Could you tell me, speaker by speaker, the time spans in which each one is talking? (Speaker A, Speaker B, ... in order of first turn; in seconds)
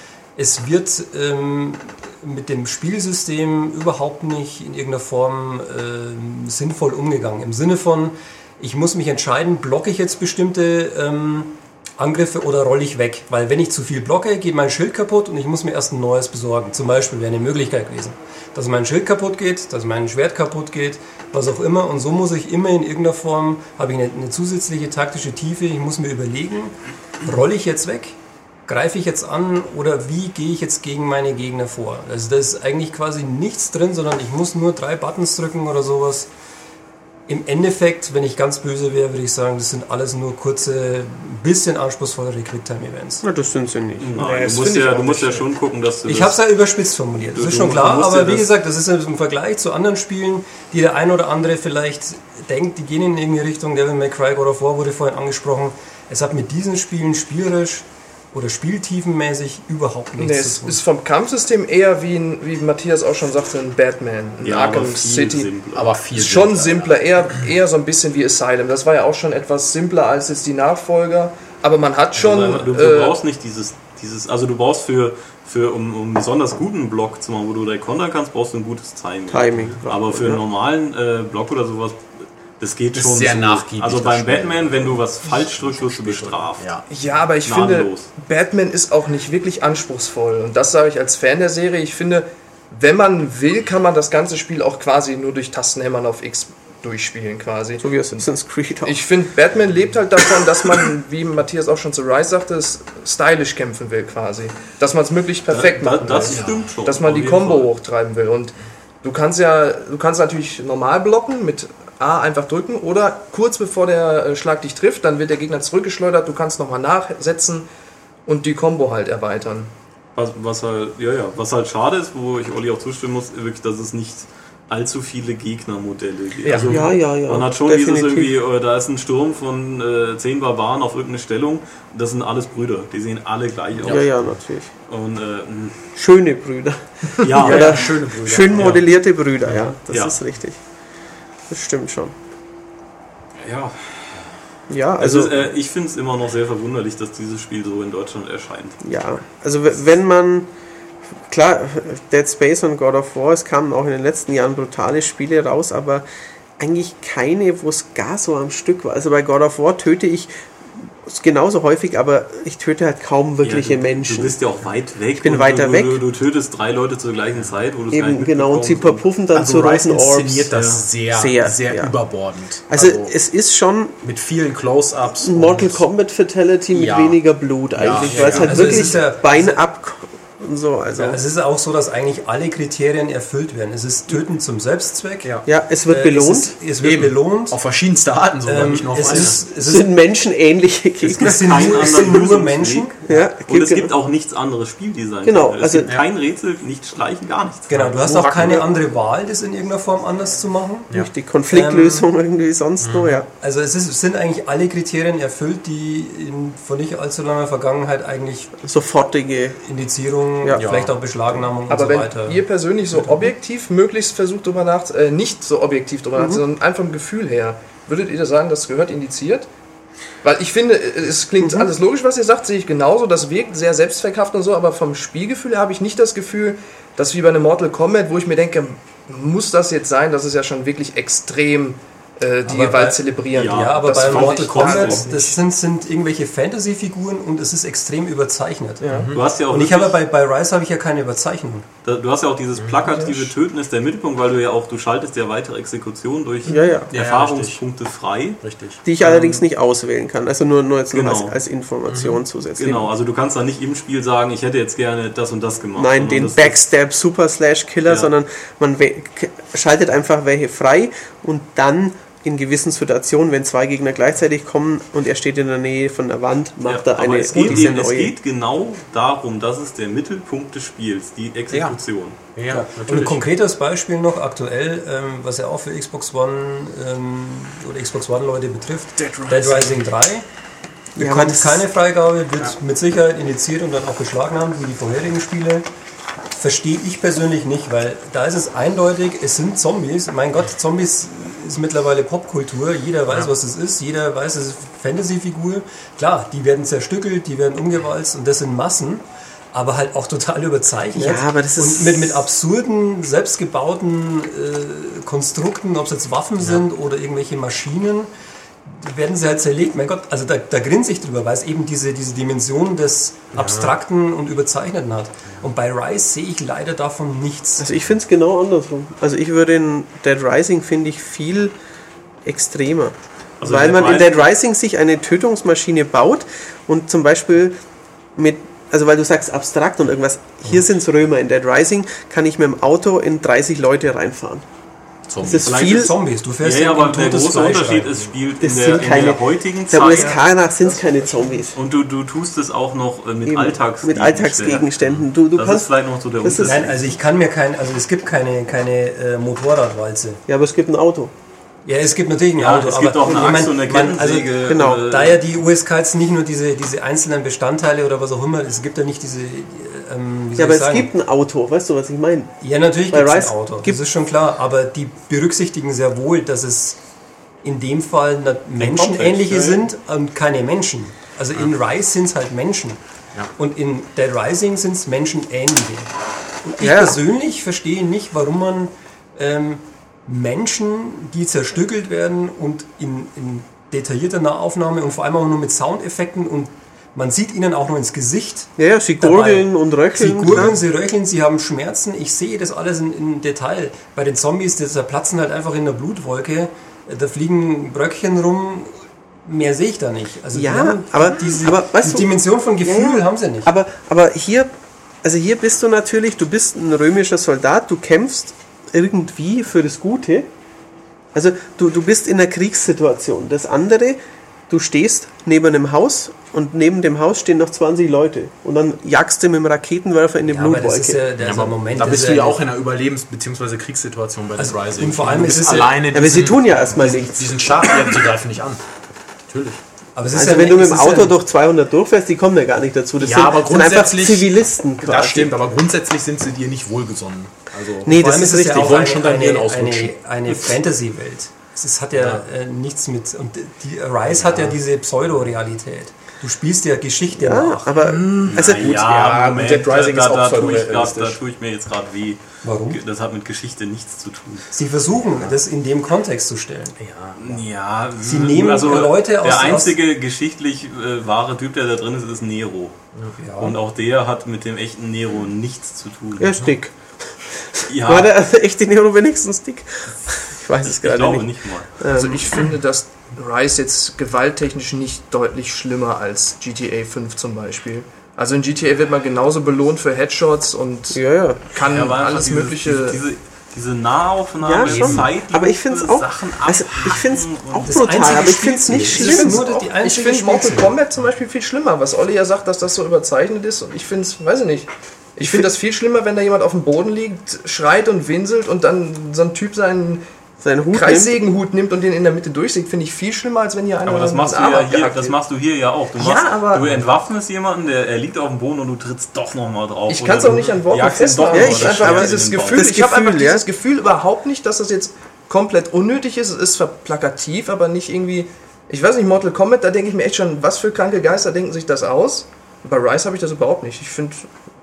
Speaker A: 0.3-36.3, 37.3-43.2, 46.0-60.8, 178.2-179.6, 180.9-185.3, 185.9-187.6, 188.4-189.9, 191.0-193.0, 197.7-200.9, 201.5-202.1, 203.3-208.6, 209.6-213.3, 232.4-238.8, 239.5-241.7, 272.5-280.2, 280.9-285.6, 286.3-308.1, 308.6-317.7, 335.5-338.1, 346.4-350.2, 351.6-360.9, 362.4-366.8, 367.4-372.8, 373.4-375.9, 376.4-398.7, 399.2-403.5, 420.3-422.4, 424.4-425.9, 429.9-431.2, 437.9-447.7, 452.4-452.8, 454.5-456.8, 458.0-459.8, 463.2-463.6, 487.6-490.7
Speaker B: 43.2-44.1, 79.3-80.4, 97.8-99.0, 126.6-128.4, 133.8-134.7, 135.9-140.6, 141.5-142.1, 144.7-145.4, 148.8-150.5, 151.3-156.0, 156.6-160.3, 161.0-164.4, 165.2-166.0, 167.9-170.5, 171.1-171.9, 172.7-174.0, 175.2-181.2, 185.4-186.5, 189.6-192.3, 193.1-193.9, 195.2-195.9, 200.9-203.2, 208.6-209.6, 210.4-210.7, 216.2-216.4, 221.4-221.7, 246.4-246.9, 248.8-252.9, 255.8-268.1, 280.9-281.7, 300.9-302.2, 317.6-321.5, 322.2-327.6, 328.1-334.4, 335.2-335.9, 338.4-341.6, 343.2-345.7, 346.2-346.7, 350.3-351.1, 354.4-354.8, 360.4-362.4, 362.9-363.8, 376.6-377.0, 388.6-390.6, 400.3-404.5, 405.0-410.3, 411.1-421.0, 425.9-427.9, 430.1-435.4, 437.8-438.8, 447.1-448.8, 466.2-472.4, 480.9-481.4, 484.4-489.7, 495.2-495.5, 500.4-501.2, 511.3-513.4
Speaker C: 44.0-46.4, 47.3-48.5, 64.4-65.9, 72.1-86.7, 87.4-88.1, 105.5-107.7, 120.2-134.2, 134.9-135.9, 137.2-138.0, 139.9-140.2, 143.4-144.3, 145.0-148.8, 163.4-169.0, 170.5-170.8, 191.1-197.7, 233.3-235.1, 239.1-239.9, 241.8-248.4, 249.0-249.4, 250.9-251.3, 252.6-256.6, 266.6-272.2, 323.4-324.3, 335.4-340.2, 341.5-344.7, 345.3-346.9, 352.4-355.2, 368.6-369.6, 448.2-454.5, 457.2-462.8, 463.4-466.4, 467.7-468.1, 470.6-471.7, 481.6-488.4, 503.8-512.7
Speaker D: 44.1-45.5, 60.2-65.5, 66.1-73.2, 86.9-98.2, 98.8-117.7, 118.2-119.7, 126.4-126.8, 211.7-219.5, 220.2-235.4, 238.8-239.2, 471.9-483.0, 488.9-500.0, 500.7-505.1, 506.0-506.8, 509.9-524.3
Speaker E: 65.7-67.0, 82.9-86.8, 137.3-138.8, 139.4-139.7, 169.3-173.1, 174.0-175.8, 176.7-177.2, 177.7-179.0, 186.8-189.4, 197.7-198.8, 202.8-203.2, 210.5-210.9, 238.9-239.2, 242.6-243.0, 246.9-247.6, 248.4-248.8, 251.9-252.2, 267.4-267.6, 271.5-271.8, 272.3-273.2, 279.0-279.8, 313.3-313.7, 335.1-335.5, 390.2-390.5, 421.2-428.6, 429.3-429.6, 433.0-439.9, 441.9-442.2, 444.1-444.6, 447.9-451.2, 456.8-457.2, 484.7-485.0